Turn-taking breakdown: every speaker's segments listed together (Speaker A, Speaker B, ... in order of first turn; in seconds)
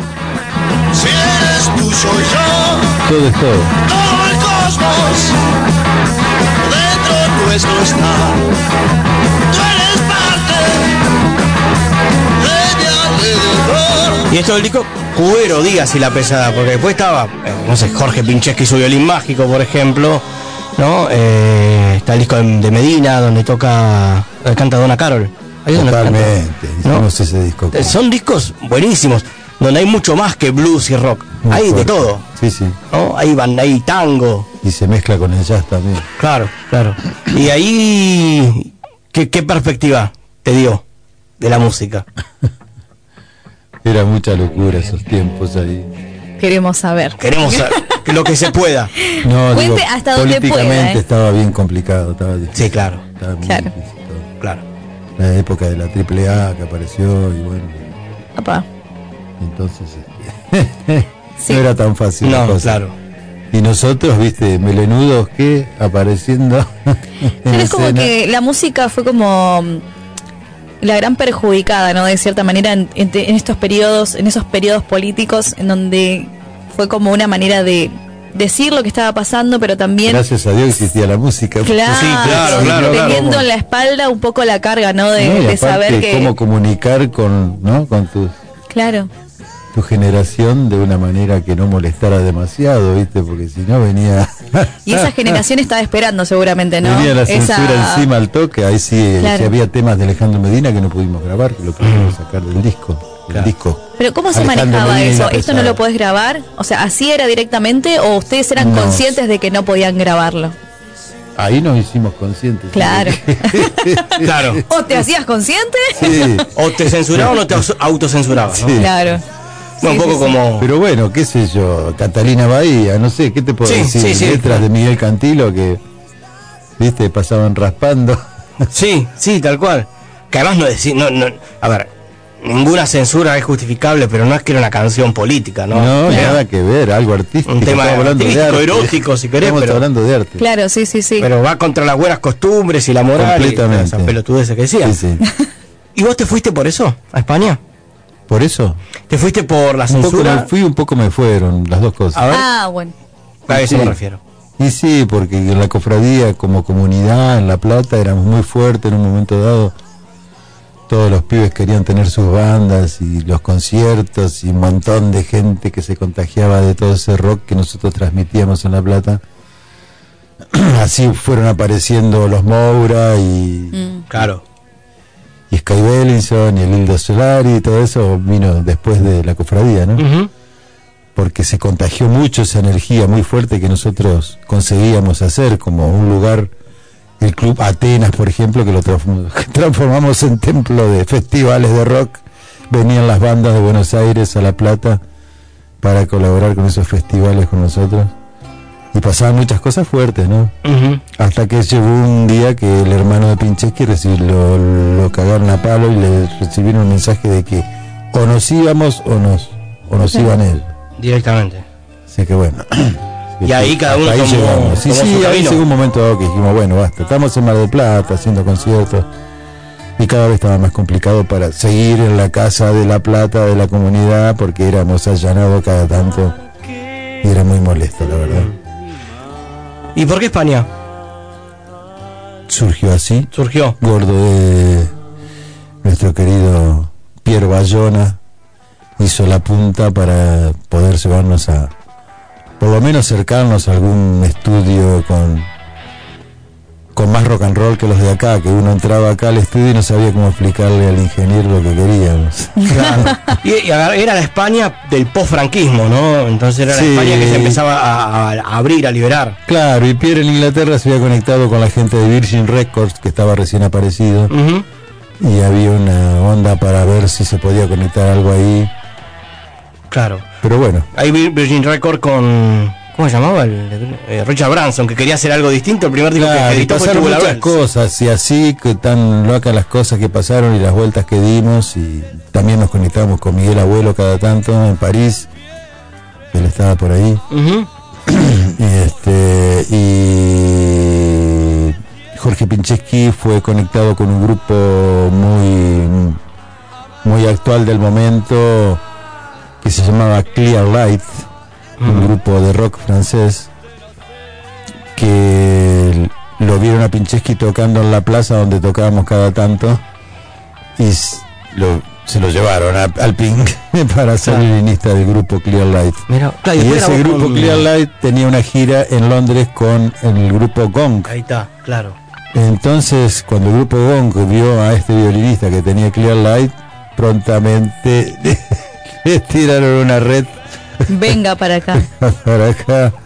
Speaker A: 0.9-2.9, 3.9-5.4, 6.6-8.4, 9.5-10.9, 12.4-14.2
Speaker B: 3.0-3.7, 25.7-28.0, 31.4-32.8, 34.6-36.0, 43.8-45.9, 49.2-54.3, 55.2-58.0, 59.4-62.8, 63.5-68.1, 80.0-83.5, 85.2-88.4, 89.7-95.4, 96.8-103.8, 104.3-105.8, 108.6-109.1, 111.4-114.6, 116.0-117.6, 118.5-119.1, 120.6-125.8, 126.8-128.2, 135.7-140.4, 143.2-144.2, 144.8-145.2, 148.3-148.8, 149.9-152.2, 153.5-154.0, 154.6-159.7, 160.9-169.2, 170.5-173.8, 175.5-180.1, 181.2-186.5, 187.2-195.0, 195.8-198.1, 198.9-200.5, 201.2-210.7, 212.1-219.1, 220.0-226.4, 227.2-228.5, 232.5-234.9, 235.8-238.2, 239.0-241.7, 242.6-245.5, 246.9-253.1, 256.7-257.6, 259.5-264.3, 265.2-268.7, 270.4-270.9, 276.1-285.3, 286.3-287.2, 288.1-296.2, 297.0-298.8, 299.6-301.3, 301.8-303.5, 304.9-309.8, 310.8-321.1, 322.3-331.1, 331.8-332.9
Speaker C: 14.3-20.2, 20.8-27.1, 27.7-32.2, 32.9-34.5, 36.2-40.8, 41.4-42.0, 47.2-48.9, 52.5-53.0, 62.2-62.9, 81.9-83.2, 101.8-102.1, 114.2-114.6, 116.0-118.8, 119.8-120.7, 123.6-124.6, 128.7-131.9, 132.4-136.4, 137.5-139.8, 141.2-145.0, 145.9-147.6, 149.1-150.5, 152.1-152.5, 153.5-154.2, 174.1-174.4, 180.0-180.3, 200.6-201.0, 211.0-211.6, 213.4-215.6, 229.9-230.7, 233.3-233.8, 252.7-259.4, 264.3-264.6, 269.9-270.2, 270.9-277.5, 287.3-287.7, 301.8-302.1, 316.1-317.7, 321.1-322.0
Speaker D: 46.4-48.0, 49.0-51.0, 53.4-53.7, 58.4-58.6, 67.5-69.8, 70.8-80.2, 81.6-86.3, 88.7-89.1, 94.9-98.1, 99.2-99.5, 104.0-110.5, 112.7-113.9, 114.7-116.3, 118.7-119.2, 119.8-120.3, 136.1-136.3, 140.4-141.3, 152.3-152.9, 173.7-174.0, 252.7-253.3, 330.9-331.9